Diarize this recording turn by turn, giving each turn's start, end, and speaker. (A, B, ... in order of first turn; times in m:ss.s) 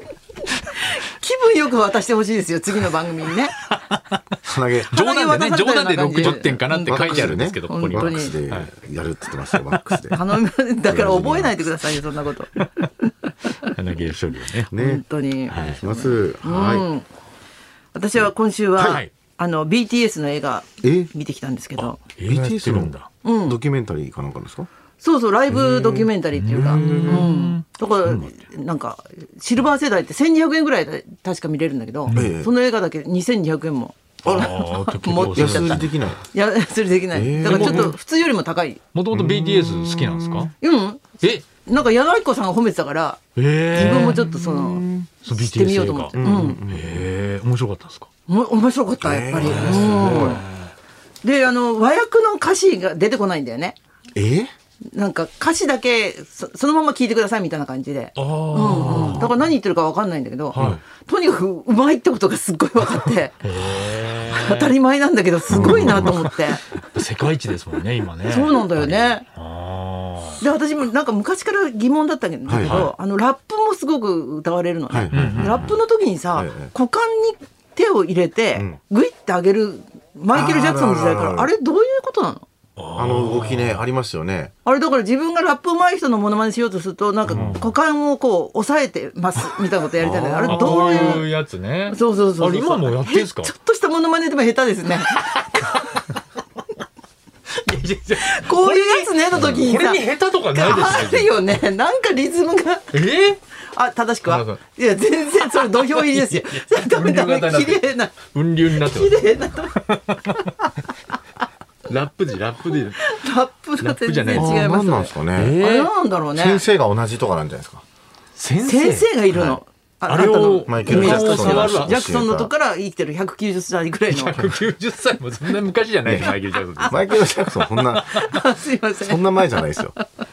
0:00.5-0:00.8 A
0:00.7-0:03.6 B
0:03.6-0:04.2 A
0:04.5-0:04.9 C
0:04.9-0:08.7 A
0:04.9-0:08.4 B
0:06.8-0:10.2 C
0:09.5-0:10.0 A
0:10.1-0:13.7 B
0:10.9-0:11.6 C
0:12.6-0:12.9 A
0:13.6-0:14.7 A
0:14.7-0:16.9 C
0:14.7-0:17.1 B
0:15.5-0:15.8 A
0:17.9-0:22.0 B
0:18.8-0:19.0 C
0:18.8-0:19.1 A
0:20.8-0:21.1 C
0:21.8-0:23.1 A
0:22.3-0:24.7 C
0:23.2-0:23.6 B
0:25.0-0:38.8 B
0:25.5-0:27.3 C
0:26.3-0:28.3 A
0:32.1-0:32.4 A
0:32.2-0:32.5 C
0:34.2-0:34.5 C
0:34.2-0:36.0 A
0:35.2-0:36.2 C
0:37.1-0:38.0 C
0:37.4-0:37.9 A
0:38.9-0:40.5 A
0:39.1-0:40.5 C
0:40.6-0:46.6 B
0:43.4-0:44.2 A
0:43.8-0:45.1 C
0:45.2-0:48.1 A
0:46.2-0:47.1 C
0:48.3-0:50.4 B
0:49.0-0:50.4 C
0:49.4-0:50.7 A
0:51.2-0:53.8 B
0:54.2-0:54.5 C
0:54.9-1:03.4 B
0:58.2-0:59.4 A
0:58.8-0:59.3 C
1:00.5-1:00.8 A
1:03.4-1:04.7 A
1:04.3-1:06.6 B
1:05.5-1:06.3 C
1:05.5-1:10.4 A
1:08.2-1:09.2 B
1:10.4-1:22.5 B
1:12.5-1:12.9 C
1:12.6-1:12.9 A
1:14.9-1:15.8 C
1:15.1-1:15.7 A
1:16.3-1:16.7 C
1:20.3-1:21.5 C
1:22.8-1:23.8 A
1:23.0-1:24.5 C
1:24.6-1:31.3 B
1:27.3-1:27.6 C
1:27.3-1:27.7 A
1:30.0-1:31.2 C
1:30.5-1:33.5 A
1:31.9-1:36.0 B
1:35.1-1:36.2 A
1:37.5-1:41.5 A
1:38.2-1:43.0 B
1:42.9-1:43.4 A
1:43.7-1:48.2 B
1:44.3-1:44.6 A
1:45.6-1:50.4 A
1:48.7-1:50.7 B
1:51.9-1:53.2 A
1:52.7-1:56.6 B
1:53.8-1:54.7 A
1:54.3-1:55.6 C
1:55.3-1:55.9 A
1:56.3-1:57.8 C
1:58.4-1:59.5 A
1:58.6-2:04.6 B
1:59.3-1:59.6 C
2:00.1-2:02.0 A
2:00.6-2:02.5 C
2:04.1-2:07.0 A
2:06.0-2:06.3 C
2:06.8-2:09.7 B
2:06.9-2:08.3 C
2:09.0-2:10.0 C